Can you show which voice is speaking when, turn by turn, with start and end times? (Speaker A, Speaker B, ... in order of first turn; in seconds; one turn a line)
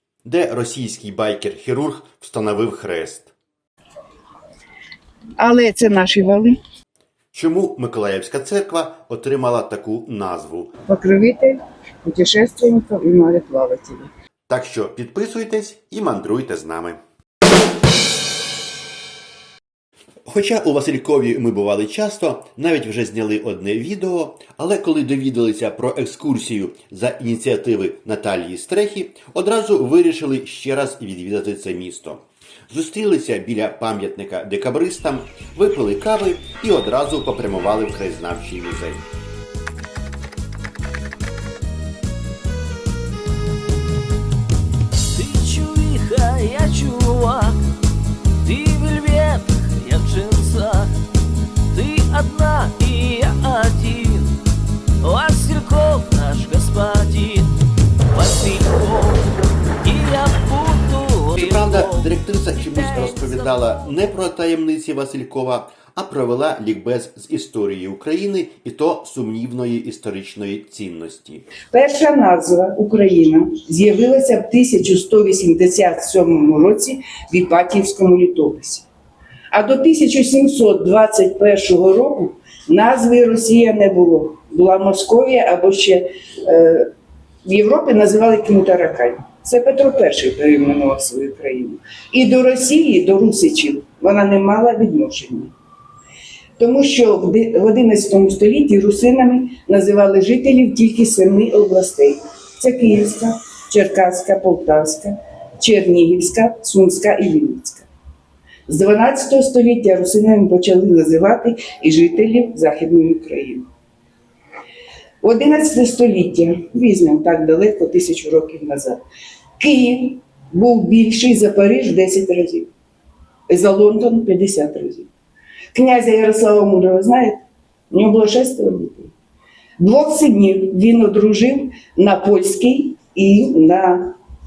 Speaker A: 0.2-3.3
Speaker B: 5.4-6.6
Speaker A: 7.3-10.7
Speaker B: 10.8-14.1
Speaker A: 14.5-17.0
Speaker A: 20.3-39.0
Speaker C: 45.1-47.6
Speaker C: 48.4-50.9
Speaker C: 51.7-54.4
Speaker C: 55.0-57.5
Speaker C: 58.1-59.2
Speaker C: 59.8-64.1
Speaker A: 61.3-71.5
Speaker B: 71.7-78.9
Speaker B: 79.5-86.9
Speaker B: 87.4-95.5
Speaker B: 96.6-107.9
Speaker B: 108.7-113.7
Speaker B: 115.2-119.0
Speaker B: 119.6-122.7
Speaker B: 123.5-125.1
Speaker B: 125.7-129.1
Speaker B: 129.8-134.2